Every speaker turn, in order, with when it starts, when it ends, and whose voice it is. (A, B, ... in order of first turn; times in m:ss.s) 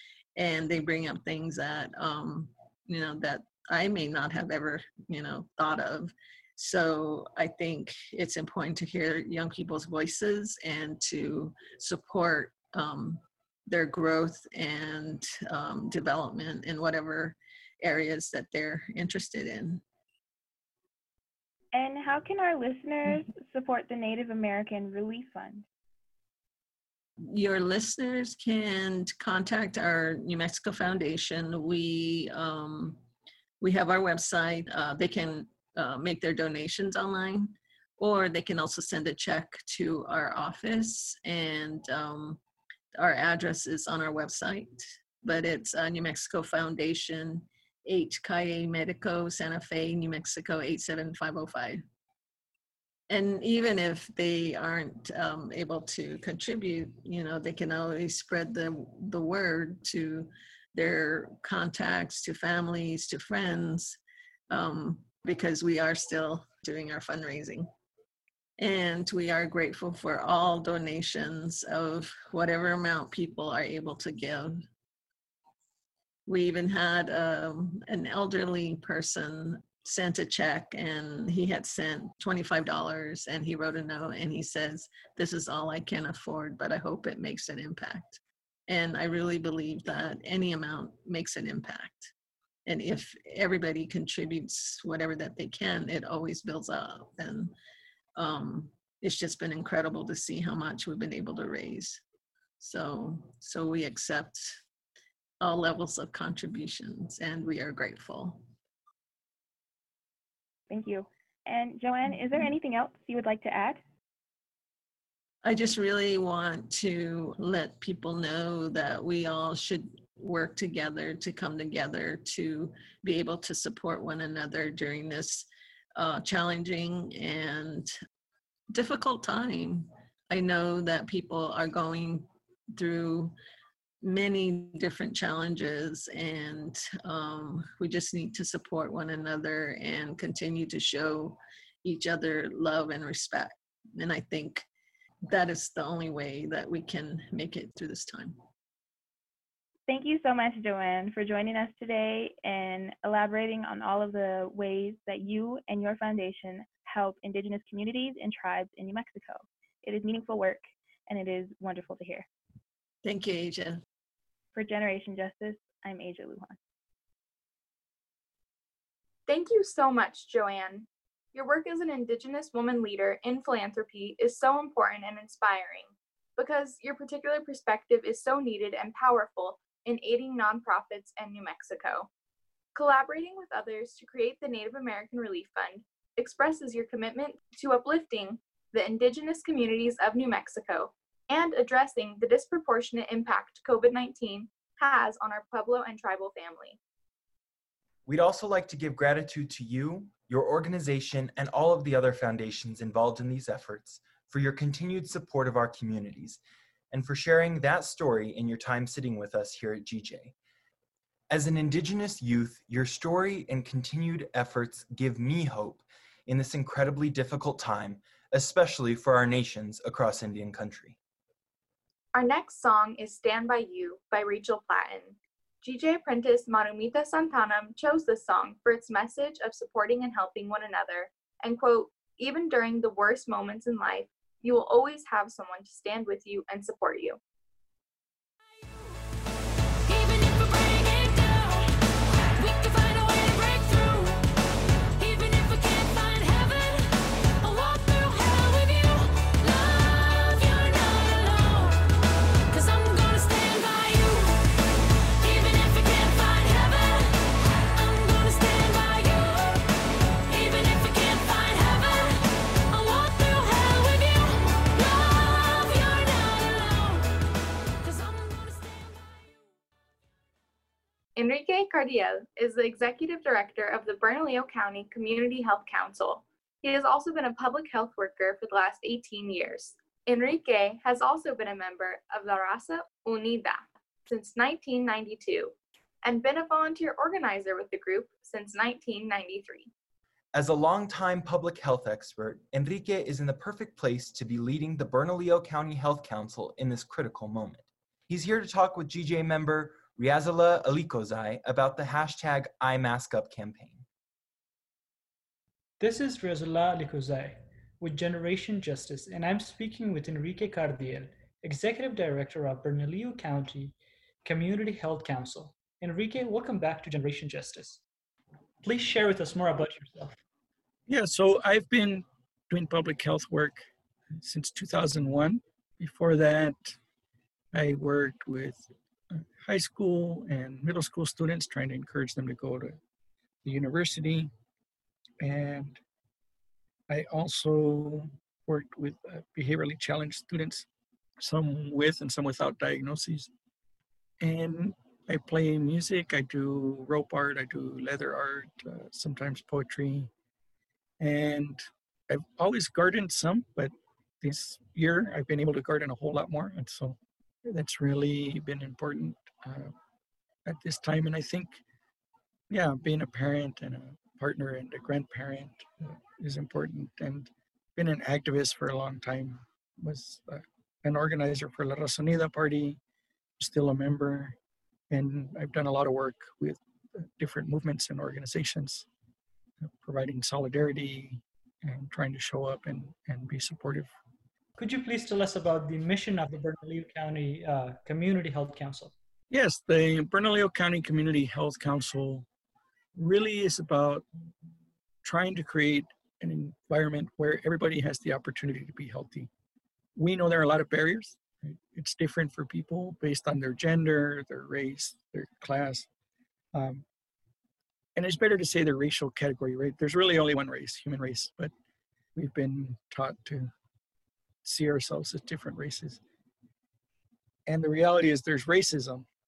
0:00.4-0:19.8 A
0:21.7-0:25.6 B
0:27.3-0:33.0 A
0:33.6-0:42.4 A
0:43.0-0:51.8 A
0:53.1-1:04.0 A
1:04.5-1:07.7 A
1:08.6-1:14.6 A
1:16.3-1:32.1 A
1:32.7-1:37.5 A
1:38.2-1:42.0 A
1:42.6-1:44.6 A
1:45.4-1:48.4 A
1:50.7-1:53.8 B
1:55.4-2:07.9 A
2:08.7-2:13.4 A
2:14.0-2:24.7 A
2:25.3-2:28.4 A
2:29.9-2:42.3 B
2:43.0-2:43.8 A
2:44.6-2:46.6 B
2:49.3-3:02.1 C
3:02.8-3:16.8 C
3:18.1-3:26.4 D
3:26.9-3:30.3 D
3:31.3-3:41.0 D
3:42.1-3:57.2 C
4:31.2-4:49.7 C
4:50.3-5:03.8 D
5:05.8-5:17.8 E
5:18.6-5:20.2 E
5:20.9-5:23.7 F
5:24.2-5:26.8 F
5:27.5-5:32.8 F
5:33.4-5:34.3 F
5:35.2-5:35.8 F
5:36.9-5:40.7 F
5:41.2-5:43.3 F
5:44.2-5:50.1 F
5:51.0-5:59.7 F
6:00.5-6:01.6 F
6:02.5-6:12.8 F
6:13.4-6:14.4 F
6:14.9-6:18.9 F
6:19.6-6:23.9 F
6:24.6-6:28.9 E
6:29.3-6:32.3 F
6:33.0-6:34.0 F
6:35.0-6:39.3 F
6:40.0-6:45.9 F
6:46.5-6:46.8 F
6:48.0-6:51.5 F
6:52.2-6:53.5 F
6:54.4-6:56.0 F
6:57.5-6:59.0 F